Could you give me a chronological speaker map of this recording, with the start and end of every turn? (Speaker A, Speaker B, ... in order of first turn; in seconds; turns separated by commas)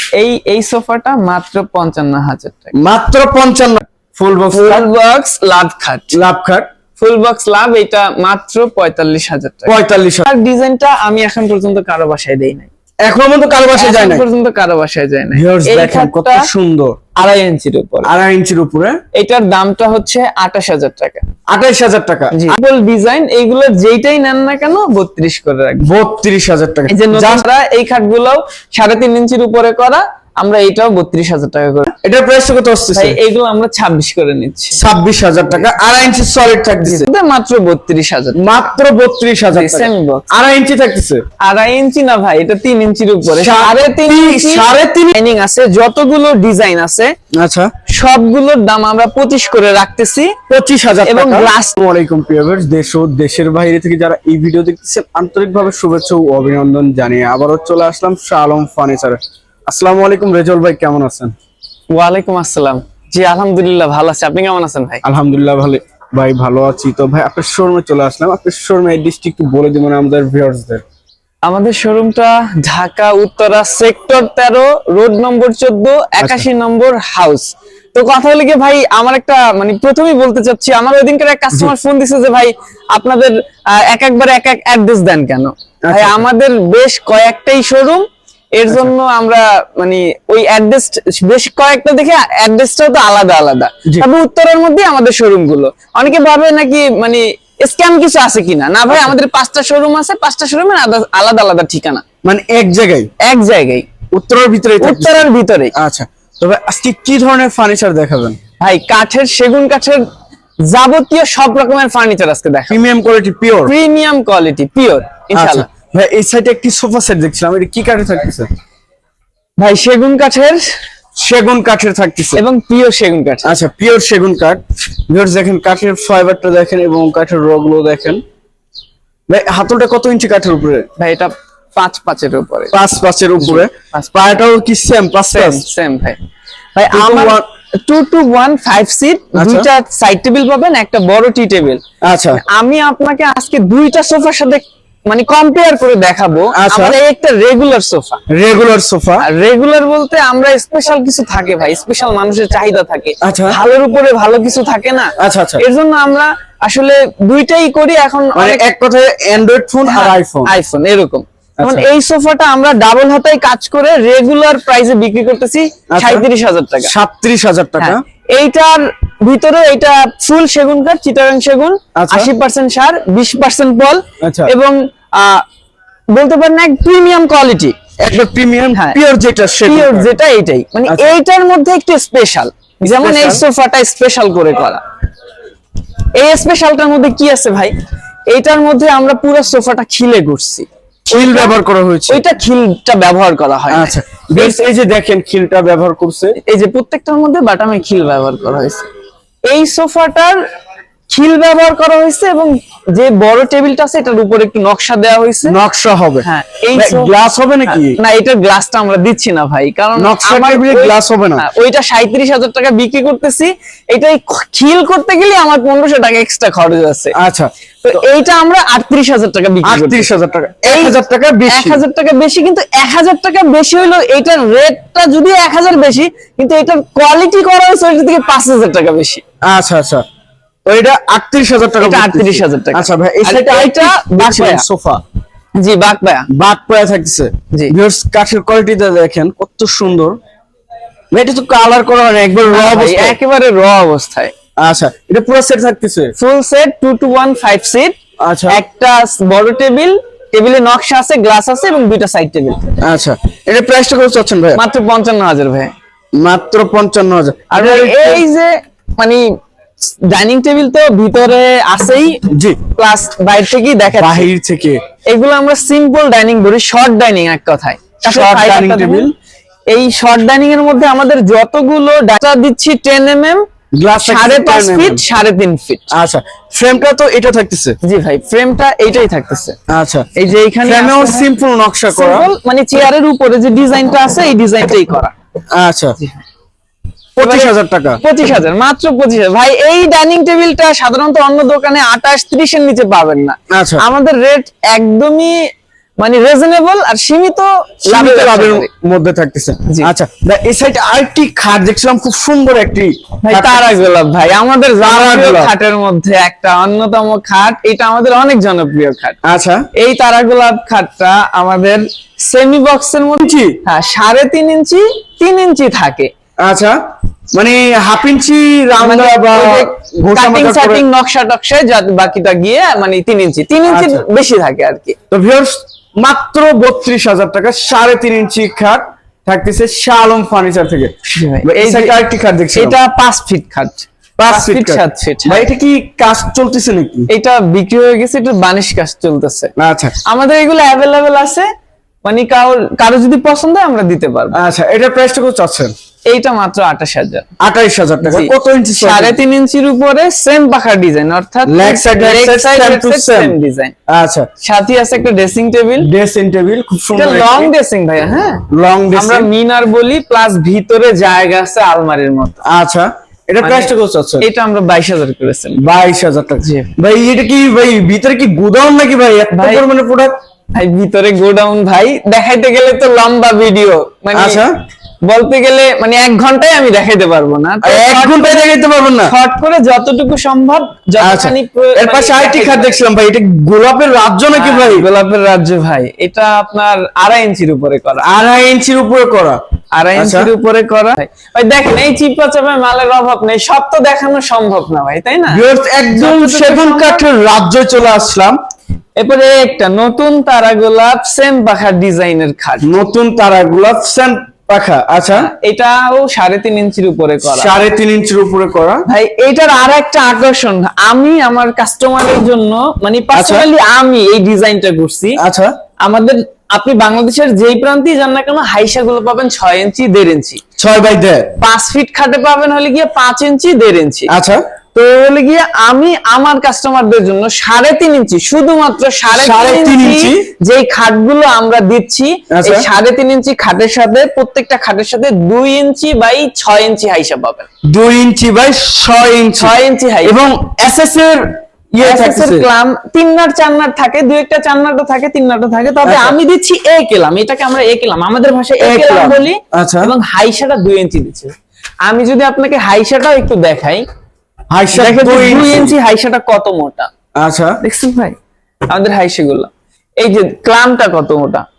Speaker A: 0.2-2.7, Speaker B: 2.7-4.9, Speaker A: 4.5-6.2, Speaker B: 6.1-6.7, Speaker A: 7.0-12.7, Speaker B: 9.7-10.3, Speaker B: 13.0-14.2, Speaker A: 13.8-16.5, Speaker B: 15.3-17.0, Speaker A: 17.1-18.1, Speaker B: 18.0-19.0, Speaker A: 19.1-21.2, Speaker B: 21.5-22.6, Speaker A: 22.3-25.9, Speaker B: 25.8-27.4, Speaker A: 26.9-31.9, Speaker B: 32.0-33.2, Speaker A: 32.9-34.8, Speaker B: 34.8-37.1, Speaker A: 36.8-38.4, Speaker B: 38.4-41.2, Speaker A: 39.5-40.3, Speaker A: 41.4-47.1, Speaker B: 43.3-45.2, Speaker B: 47.4-47.7, Speaker A: 47.9-50.4, Speaker B: 50.5-61.3, Speaker A: 51.0-51.7, Speaker A: 61.9-65.0, Speaker B: 65.0-70.8, Speaker A: 71.5-102.0, Speaker B: 76.2-76.4, Speaker B: 85.8-86.2, Speaker B: 102.2-103.1, Speaker A: 103.2-103.9, Speaker B: 104.1-108.4, Speaker A: 104.8-105.7, Speaker A: 108.6-110.0, Speaker A: 110.6-112.8, Speaker B: 112.7-113.7, Speaker A: 113.7-115.7, Speaker B: 115.3-118.5, Speaker A: 119.6-120.7, Speaker B: 121.2-122.4, Speaker A: 122.3-123.5, Speaker B: 123.4-128.2, Speaker B: 129.3-130.9, Speaker A: 131.0-132.7, Speaker B: 132.7-135.7, Speaker A: 133.4-134.2, Speaker A: 135.3-136.2, Speaker A: 136.8-141.8, Speaker B: 136.9-137.4, Speaker B: 139.3-139.7, Speaker B: 142.0-142.4, Speaker A: 142.3-148.2, Speaker B: 146.5-147.0, Speaker B: 148.3-149.2, Speaker A: 149.2-158.7, Speaker B: 153.2-153.6, Speaker B: 155.2-155.6, Speaker B: 158.3-160.5, Speaker A: 159.8-166.9, Speaker B: 161.6-161.9, Speaker B: 165.9-166.2, Speaker B: 166.8-168.0, Speaker A: 167.8-175.4, Speaker B: 171.9-172.3, Speaker B: 174.2-174.5, Speaker A: 176.1-177.7, Speaker B: 178.0-180.1, Speaker A: 179.6-184.8, Speaker B: 182.8-183.4, Speaker A: 186.2-187.7, Speaker A: 188.3-191.5, Speaker B: 191.1-192.2, Speaker A: 192.1-194.6, Speaker B: 193.7-196.4, Speaker A: 196.4-198.8, Speaker A: 199.5-200.4, Speaker A: 201.1-205.6, Speaker B: 205.4-208.0, Speaker A: 206.2-207.1, Speaker A: 207.7-217.1, Speaker B: 209.9-211.5, Speaker B: 217.1-218.0, Speaker A: 217.8-220.1, Speaker B: 219.6-221.8, Speaker A: 220.6-220.9, Speaker A: 221.5-229.2, Speaker B: 229.4-230.0, Speaker B: 230.7-235.0, Speaker A: 231.8-234.6, Speaker A: 235.6-236.3, Speaker B: 236.3-240.2, Speaker B: 241.1-243.2, Speaker A: 242.5-244.3, Speaker B: 244.6-246.1, Speaker A: 246.2-248.0, Speaker B: 248.2-248.6, Speaker A: 248.5-252.7, Speaker B: 252.8-254.6, Speaker A: 254.6-255.7, Speaker B: 256.2-258.2, Speaker A: 257.5-259.3, Speaker A: 260.0-264.3, Speaker B: 262.3-262.6, Speaker B: 264.0-264.8, Speaker A: 265.1-269.1, Speaker B: 268.0-269.1, Speaker A: 269.7-273.4, Speaker B: 273.8-275.0, Speaker A: 274.0-275.9, Speaker B: 275.9-277.8, Speaker A: 277.8-279.6, Speaker B: 279.7-280.1, Speaker A: 280.1-281.3, Speaker B: 280.6-282.3, Speaker A: 281.9-285.1, Speaker B: 285.5-285.9, Speaker B: 287.2-288.0, Speaker A: 287.2-298.7, Speaker B: 293.5-293.8, Speaker B: 297.9-303.8, Speaker A: 303.2-309.2, Speaker B: 304.8-305.5, Speaker B: 309.2-309.7, Speaker A: 309.7-316.1, Speaker B: 313.2-313.6, Speaker B: 316.4-316.8, Speaker B: 317.3-320.8, Speaker A: 318.8-325.0, Speaker B: 323.7-324.0, Speaker B: 325.1-332.8, Speaker A: 331.1-331.9, Speaker A: 332.5-335.5, Speaker B: 334.2-337.1, Speaker A: 337.1-339.5, Speaker B: 339.6-339.9, Speaker A: 340.0-341.5, Speaker A: 342.0-344.4, Speaker B: 344.3-345.7, Speaker A: 346.1-347.3, Speaker B: 347.4-349.2, Speaker A: 348.0-353.7, Speaker B: 351.4-353.4, Speaker B: 353.9-354.3, Speaker A: 354.4-355.9, Speaker B: 355.8-357.5, Speaker A: 356.9-362.4, Speaker B: 358.5-359.3, Speaker B: 362.4-364.2, Speaker A: 363.4-365.6, Speaker B: 365.6-370.2, Speaker A: 366.4-366.7, Speaker A: 369.3-369.6, Speaker A: 370.5-374.4, Speaker B: 374.1-374.5, Speaker A: 375.1-378.5, Speaker B: 377.6-379.1, Speaker A: 379.0-382.8, Speaker B: 381.0-384.9, Speaker A: 384.3-388.1, Speaker B: 388.0-389.4, Speaker A: 389.7-397.0, Speaker B: 389.9-390.3, Speaker B: 395.3-398.4, Speaker A: 399.0-402.7, Speaker B: 402.6-405.3, Speaker A: 405.1-407.5, Speaker B: 407.2-408.8, Speaker A: 408.9-415.2, Speaker B: 413.1-413.5, Speaker B: 415.2-415.5, Speaker A: 415.8-420.4, Speaker B: 420.6-421.3, Speaker A: 421.4-424.1, Speaker B: 424.1-424.4, Speaker A: 424.7-437.5, Speaker B: 429.1-430.3, Speaker B: 432.3-432.7, Speaker B: 437.7-442.5, Speaker A: 439.4-440.2, Speaker A: 441.8-451.3, Speaker B: 445.8-446.2, Speaker B: 448.6-449.9, Speaker A: 451.8-453.8, Speaker B: 454.5-455.7, Speaker A: 454.7-456.9, Speaker B: 457.2-457.6, Speaker A: 457.6-458.1, Speaker A: 458.7-461.4